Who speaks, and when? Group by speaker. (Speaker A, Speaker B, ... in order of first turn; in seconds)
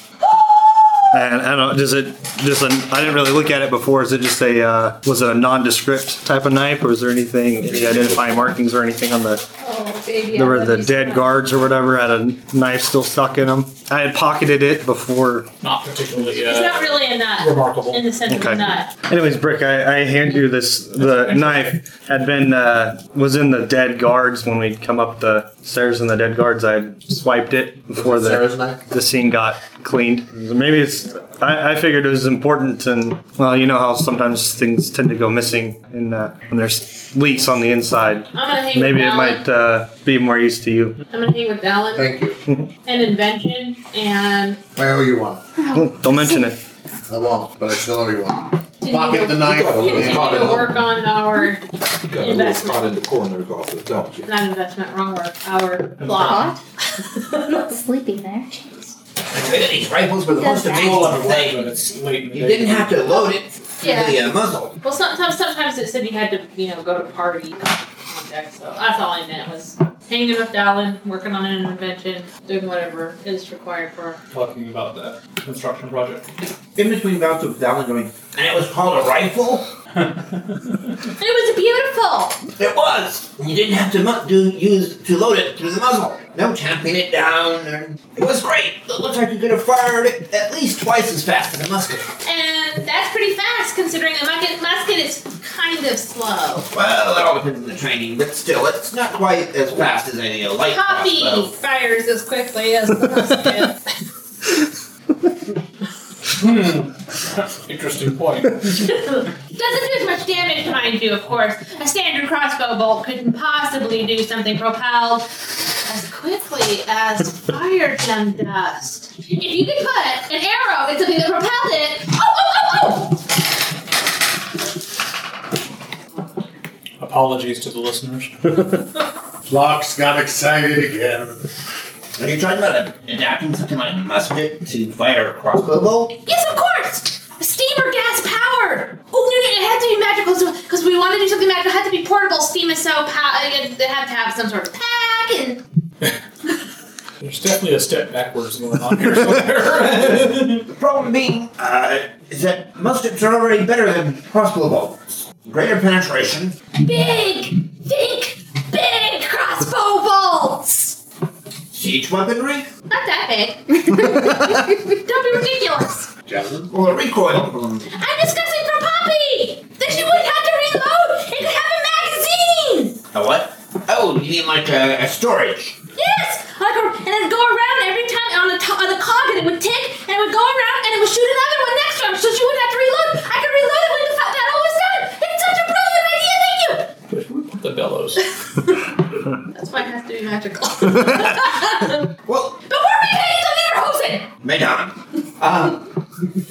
Speaker A: 1.1-9.4, 10.3-15.5, 18.3-41.0, 45.7-46.6
Speaker B: 7.7-8.2, 49.4-50.8, 52.1-54.3
Speaker C: 9.6-11.3, 16.3-18.9, 38.3-39.4, 41.1-42.1, 42.9-44.6, 48.8-51.6, 52.2-52.9, 54.3-57.7, 63.8-64.2, 64.8-74.2, 81.2-82.4, 92.2-96.7, 100.7-103.8, 108.8-123.2, 136.2-145.6, 156.8-161.0, 162.9-166.1, 167.9-173.0, 175.9-186.9, 189.5-192.1, 192.7-194.3
Speaker D: 15.6-18.0, 21.0-21.7, 56.0-56.4, 59.3-59.6, 60.7-63.1, 74.3-76.2, 80.1-80.7, 106.4-108.9, 127.0-128.5, 147.2-150.7, 187.1-188.3
Speaker E: 27.9-28.8, 41.9-42.4, 44.8-45.4, 47.1-50.7, 129.5-131.4, 166.3-166.7
Speaker F: 45.6-46.5, 56.0-56.6, 57.5-58.9, 60.4-61.1
Speaker G: 59.3-64.7, 76.8-79.7, 82.6-92.1, 96.7-101.5, 132.2-136.2, 150.7-156.6, 161.7-162.7, 166.7-167.9, 173.1-175.8, 192.3-192.6, 194.4-195.9